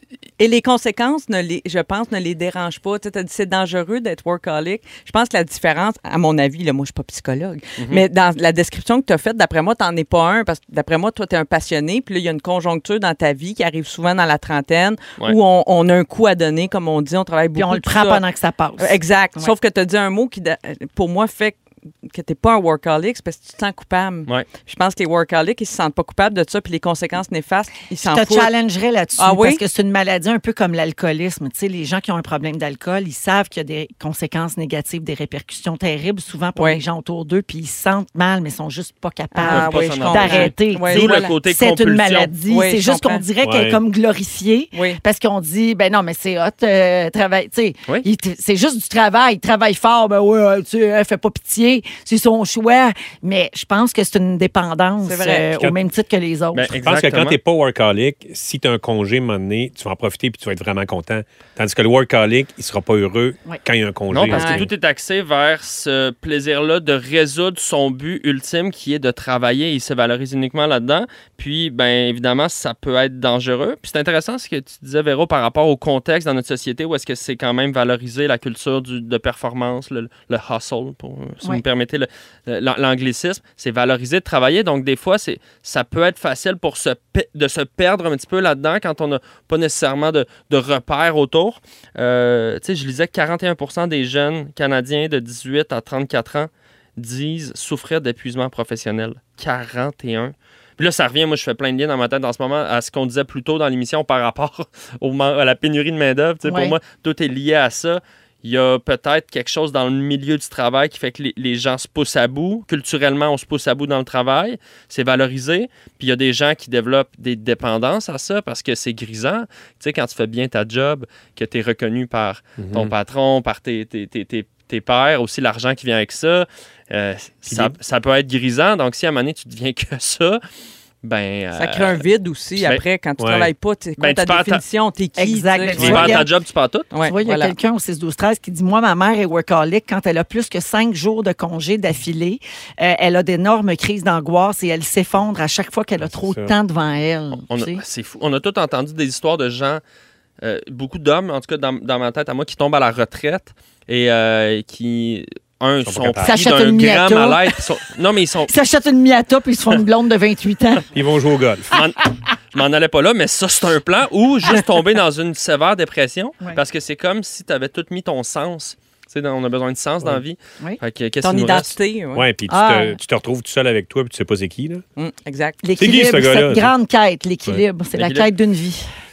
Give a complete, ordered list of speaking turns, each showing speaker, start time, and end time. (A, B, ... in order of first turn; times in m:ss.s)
0:00.4-0:18.2 A
0:07.8-0:08.0 B
0:17.6-0:19.5 C
0:18.8-0:28.5 A
0:28.0-0:56.7 C
0:29.2-0:29.6 A
0:36.6-0:36.8 A
0:39.3-0:41.3 A
0:39.5-0:42.3 B
0:42.4-0:43.2 A
0:43.4-0:43.8 D
0:44.7-0:45.0 A
0:55.0-0:55.5 A
0:56.5-0:57.4 B
0:56.7-1:04.7 D
1:04.1-2:10.4 B
1:04.3-1:04.7 A
1:46.4-1:46.8 C
2:02.6-2:02.9 D
2:07.5-2:07.8 D
2:11.0-2:12.0 B
2:11.6-2:16.2 A
2:12.6-2:12.8 B
2:13.2-2:13.5 D
2:14.0-2:14.6 B
2:15.2-2:16.3 C
2:15.8-2:16.9 B
2:16.9-2:17.6 A
2:17.0-2:27.8 C
2:26.0-2:26.6 D
2:27.5-2:29.8 B
2:30.4-2:38.5 B
2:35.8-2:36.6 D
2:36.2-2:37.5 C
2:38.5-2:40.8 C
2:40.9-2:41.7 D
2:41.7-2:42.0 B
2:42.5-2:51.8 B
2:51.2-2:52.3 A
2:52.1-2:54.8 D
2:52.5-2:53.0 C
2:55.0-2:55.6 A
2:55.6-2:58.8 C
2:55.8-2:56.7 D
2:58.0-2:58.3 B